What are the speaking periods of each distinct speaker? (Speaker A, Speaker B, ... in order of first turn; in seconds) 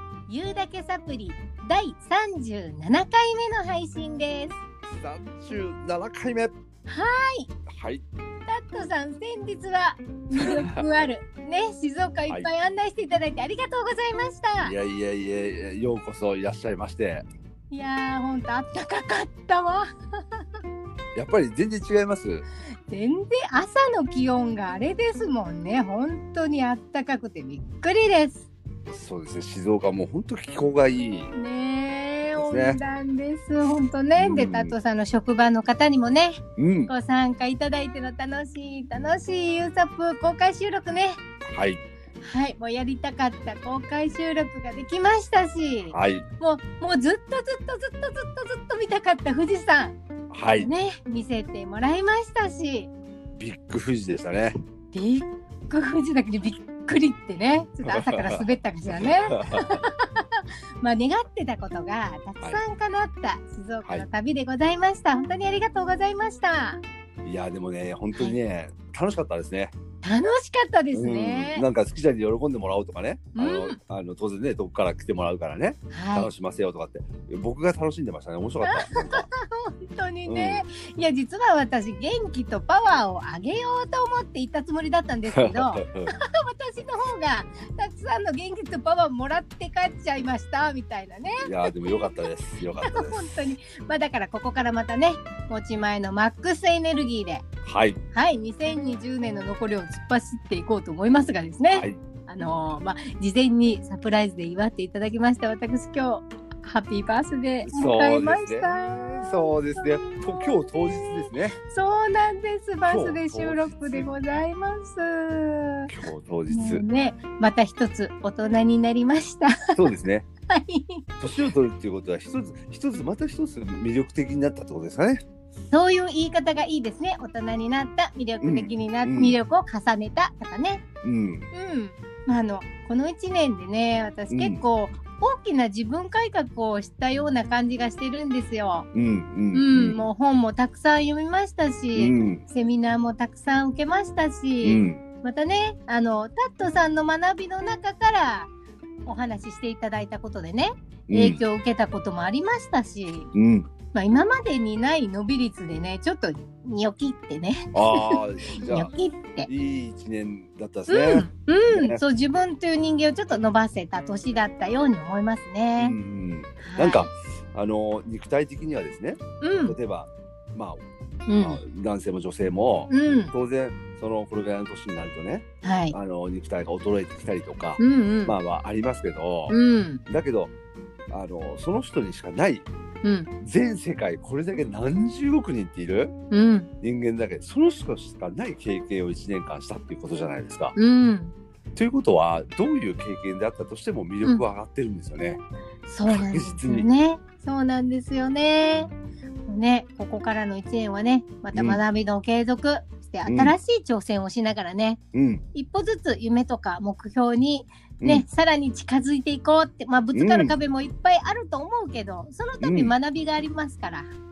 Speaker A: 0.3-4.6, 6.9-7.5, 8.5-14.7, 17.7-19.8, 22.9-28.5, 31.3-41.2, 42.2-50.0, 50.6-52.9, 54.9-66.8, 70.0-71.6, 73.3-73.8, 75.9-76.3, 78.6-97.4, 98.1-115.9, 116.5-119.8, 120.5-121.0, 125.7-130.8, 131.5-138.9, 139.5-148.5, 149.1-153.3, 153.9-159.5, 160.9-166.0, 166.6-167.1, 169.4-169.8, 171.3-171.6, 172.9-173.3, 175.6-175.9, 177.8-178.3, 179.5-180.0, 183.0-183.3, 186.3-186.7, 190.8-191.3, 195.8-198.9, 199.5-205.0, 205.5-214.1
Speaker B: 4.9-6.5, 7.7-8.0, 10.3-10.8, 14.6-17.2, 21.1-22.4, 28.9-31.3, 32.4-32.8, 34.2-34.7, 36.6-36.9, 41.5-41.8, 45.9-46.2, 50.3-50.7, 53.4-54.5, 57.9-59.8, 67.2-69.7, 70.9-79.3, 80.2-80.6, 85.3-86.1, 91.4-93.2, 97.6-98.0, 107.7-111.5, 112.9-114.1, 115.9-116.8, 119.7-120.3, 121.2-125.2, 128.4-129.4, 131.0-131.5, 134.3-134.6, 138.9-140.0, 141.9-142.4, 144.6-145.0, 151.1-151.4, 153.3-153.7, 157.7-158.9, 159.5-162.0, 165.8-170.8, 171.4-180.5, 181.1-182.7, 183.4-186.1, 186.8-190.7, 191.7-195.4, 196.1-196.9, 201.5-201.8, 203.2-203.5, 205.1-205.4, 208.0-208.2, 210.1-210.5, 212.6-212.9